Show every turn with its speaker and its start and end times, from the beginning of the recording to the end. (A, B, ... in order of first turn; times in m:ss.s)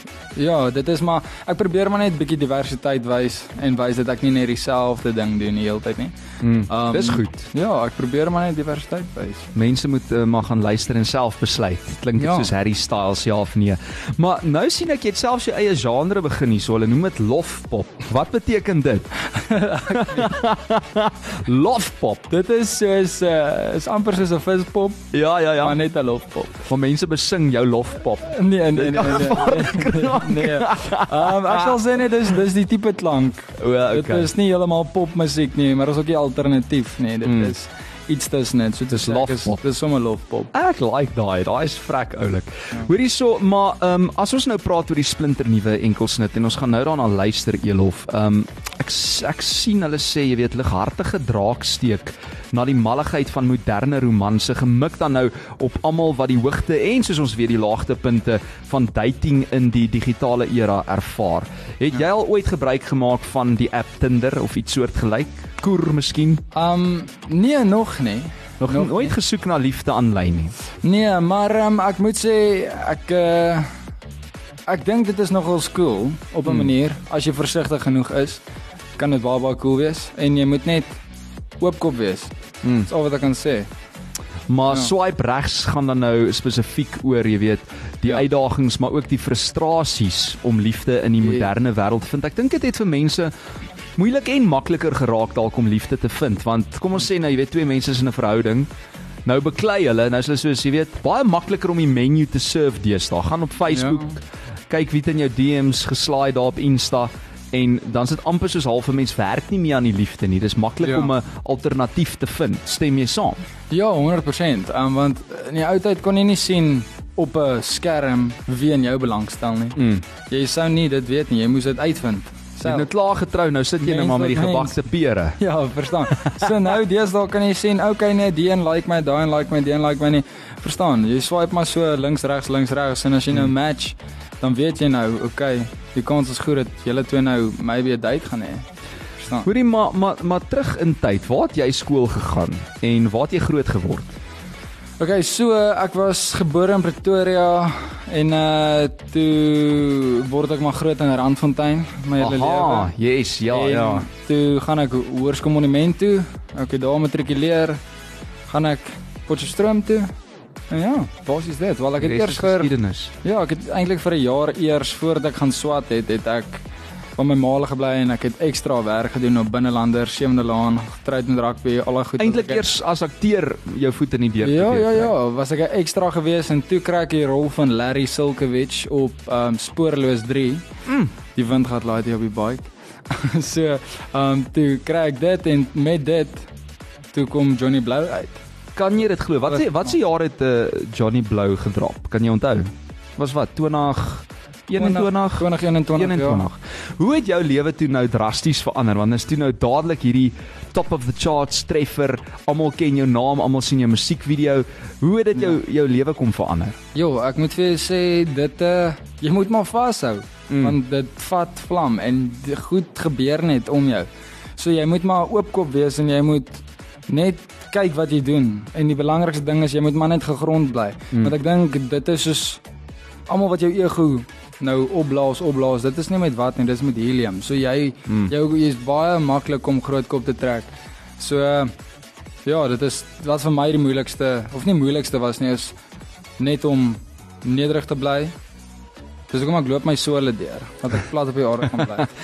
0:00.3-0:06.2 A
0:06.4-0:07.5 B
0:06.7-0:09.5 A
0:09.5-0:19.1 B
0:12.2-0:12.5 A
0:19.3-0:20.4 A
0:19.9-0:22.3 B
0:22.3-0:26.6 A
0:25.1-0:25.8 B
0:26.6-0:31.7 B
0:28.3-0:40.5 A
0:33.6-0:34.3 B
0:37.2-0:37.5 B
0:38.9-0:39.6 B
0:40.5-1:06.4 B
1:06.5-1:09.1 A
1:08.6-1:10.5 B
1:10.8-1:13.7 A
1:14.7-1:18.4 A
1:19.0-1:21.0 A
1:21.6-1:22.3 A
1:22.6-1:22.9 B
1:22.8-1:23.7 A
1:24.5-1:33.3 B
1:31.2-1:31.5 A
1:34.0-1:38.7 B
1:39.2-1:53.4 B
1:43.7-1:44.1 A
1:50.8-1:51.1 A
1:53.7-2:02.9 A
1:59.8-2:00.0 B
2:02.6-2:05.4 B
2:03.8-2:04.8 A
2:05.4-2:18.7 A
2:06.2-2:06.4 B
2:19.2-2:19.5 A
2:19.4-2:24.1 B
2:25.0-2:32.9 A
2:32.2-2:34.1 B
2:33.5-2:37.8 A
2:38.5-2:40.1 A
2:40.7-2:42.7 A
2:42.0-2:43.1 B
2:43.2-2:46.6 A
2:47.2-2:52.6 A
2:52.2-2:55.1 B
2:54.4-3:00.6 A
3:00.8-3:01.1 B
3:01.3-3:06.5 A
3:07.1-3:08.4 A
3:08.8-3:26.8 B
3:09.5-3:09.8 A
3:14.8-3:16.5 A
3:26.9-3:42.6 A
3:30.5-3:30.8 B
3:43.3-3:51.7 A
3:48.1-3:48.3 B
3:52.4-3:55.7 A
3:56.4-3:58.3 A
3:59.3-4:02.1 A